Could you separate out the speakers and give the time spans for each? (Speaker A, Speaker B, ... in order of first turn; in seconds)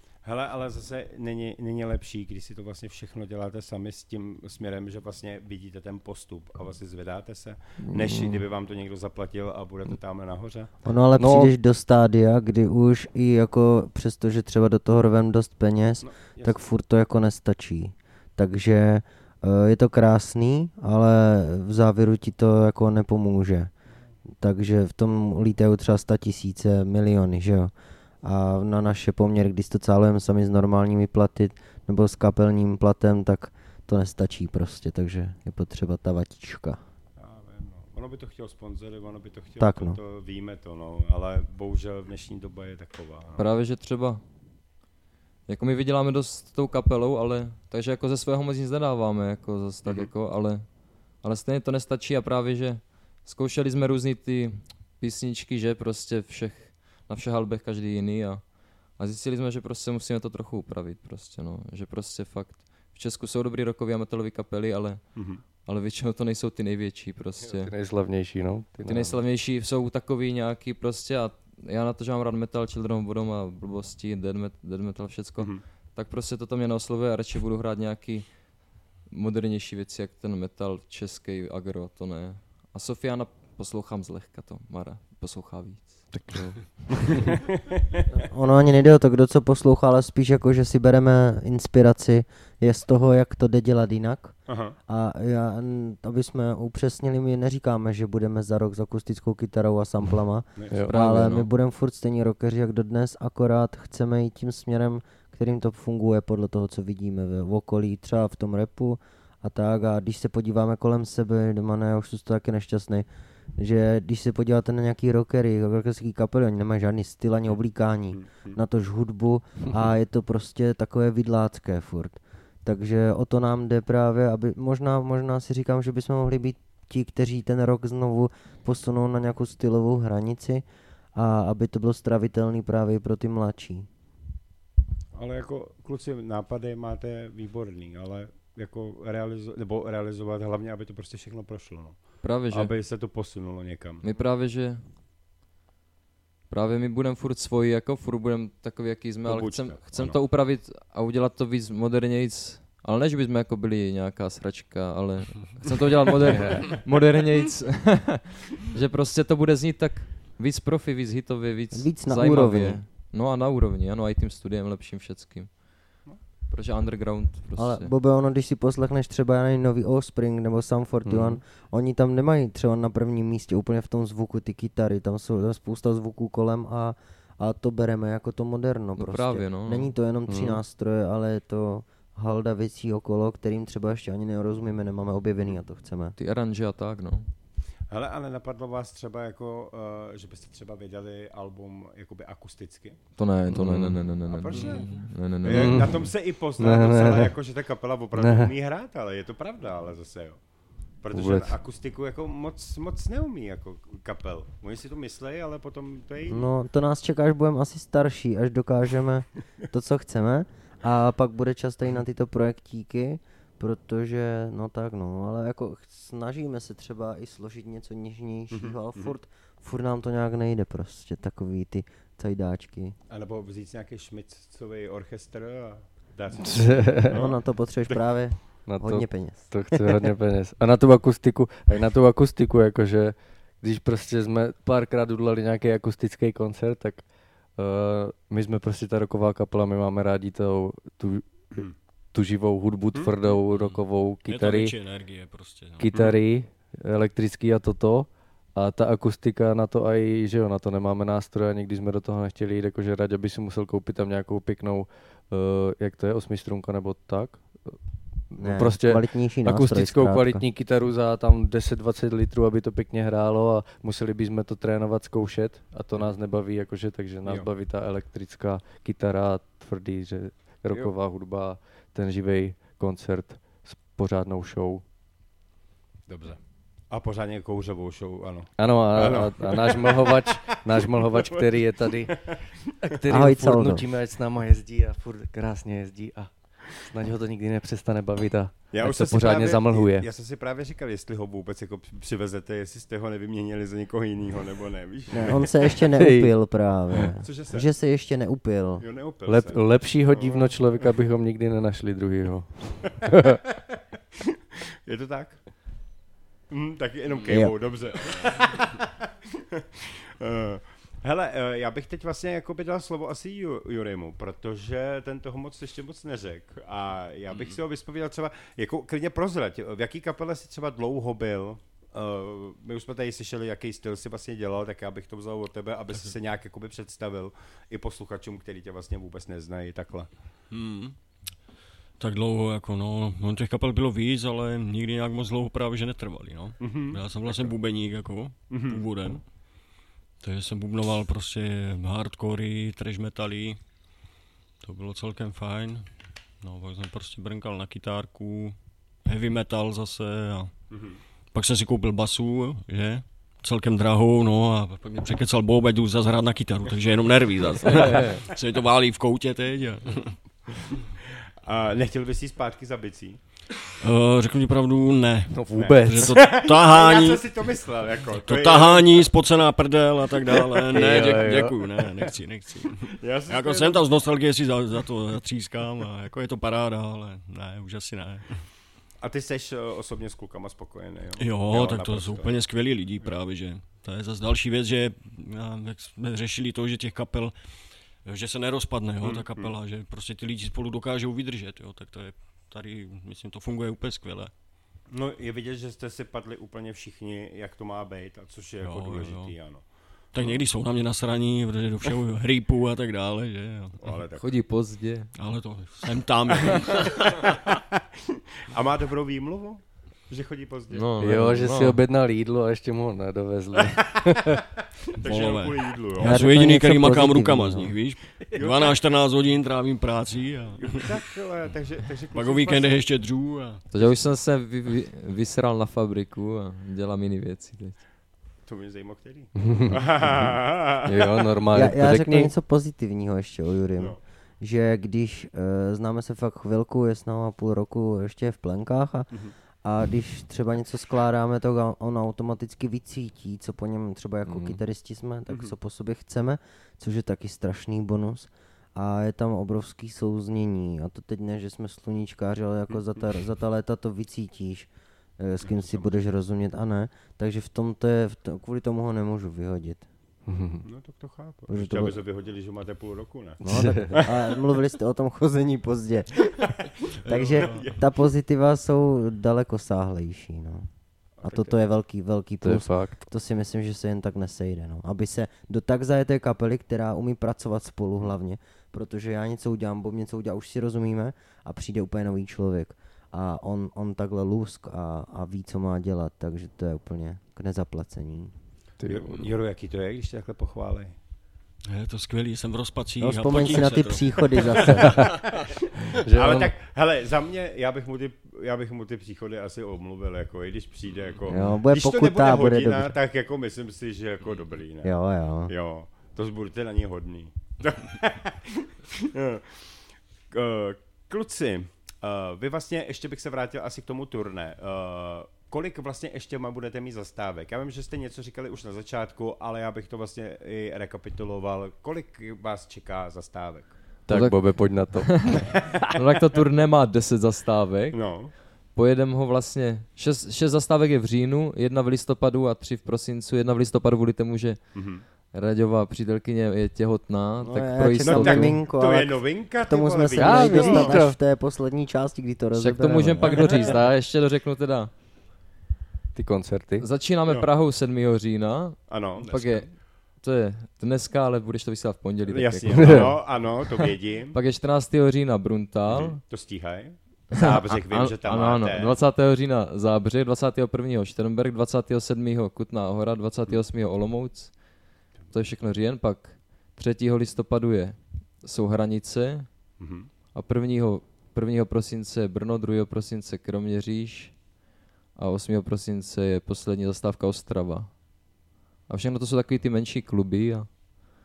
Speaker A: 0.2-10.7, 16.0-16.6, 37.2-43.5, 49.9-50.1, 65.2-65.4, 75.4-75.6, 94.5-94.8, 100.6-100.8, 118.1-118.6, 135.2-144.0, 149.3-150.2, 187.9-193.0, 194.3-200.4, 201.0-206.5, 218.5-219.1, 223.1-227.3, 276.1-276.4, 276.9-281.5, 282.1-282.4, 288.7-295.5, 297.2-297.7, 298.8-300.8, 304.9-305.4, 306.5-330.1, 336.6-337.6, 338.5-338.8, 350.7-351.0, 361.4-363.4, 365.5-369.1, 373.0-373.8, 379.0-382.4, 389.0-389.6, 394.9-399.7, 403.8-404.3, 406.3-407.6, 408.5-410.9, 413.6-414.0, 415.0-416.2, 418.3-418.8, 420.6-422.8, 428.5-431.2, 445.3-445.6, 455.4-455.9, 460.6-464.2, 466.4-467.8, 471.2-471.6, 488.9-490.9, 496.1-504.9, 505.5-509.6, 510.3-523.8, 527.9-528.3, 534.8-535.0, 538.0-541.0, 543.5-543.7, 548.9-549.7, 552.3-554.4, 555.9-558.9, 569.8-570.1
Speaker B: 7.8-8.4, 11.2-11.5, 67.5-69.2, 86.1-87.3, 156.2-156.8, 171.1-171.4, 180.3-180.6, 193.5-194.2, 195.4-197.3, 198.2-198.5, 201.1-201.6, 226.4-227.2, 228.7-244.7, 245.8-274.8, 278.6-282.3, 282.8-290.1, 296.0-296.3, 299.3-303.4, 357.8-358.2, 365.3-366.3, 370.7-371.6, 411.0-414.4, 416.0-418.3, 429.4-430.3, 430.8-432.3, 444.3-444.6, 460.3-460.6, 463.4-464.0, 472.4-473.0, 488.8-489.2, 494.8-495.1, 496.0-496.5, 524.1-525.4, 540.2-541.2, 546.1-546.9, 552.7-553.2
Speaker C: 10.8-23.7, 24.4-36.8, 39.6-40.0, 88.3-94.3, 94.9-130.6, 131.2-133.9, 161.7-162.8, 167.6-186.2, 206.3-222.9, 227.1-230.0, 258.4-260.4, 283.1-283.9, 295.1-298.9, 307.3-307.6, 416.1-417.3, 431.5-439.1, 439.6-459.9, 461.5-462.0, 463.5-470.7, 471.2-488.3, 493.0-495.1, 501.3-502.9, 504.8-505.5, 537.4-543.8
Speaker D: 43.4-44.2, 45.5-50.7, 51.2-65.0, 65.7-67.7, 68.8-78.3, 79.1-86.4, 100.9-101.5, 142.2-142.7, 144.0-144.8, 146.5-165.6, 166.5-167.9, 179.0-179.9, 186.2-187.3, 193.2-195.7, 404.2-405.1, 410.7-411.8, 423.7-427.8, 524.1-534.8, 535.3-538.5, 542.5-544.9, 546.8-556.2, 557.3-564.6, 565.3-569.5, 570.4-574.4, 575.2-578.0, 578.9-580.7
Speaker E: 194.5-195.1, 243.2-246.2, 307.1-308.4, 330.5-331.0, 332.0-339.3, 340.2-343.6, 344.6-360.2, 363.8-367.2, 368.2-378.4, 381.2-394.3, 398.6-399.4, 400.1-404.0, 405.2-407.4, 415.0-420.9, 422.1-423.6, 491.7-494.6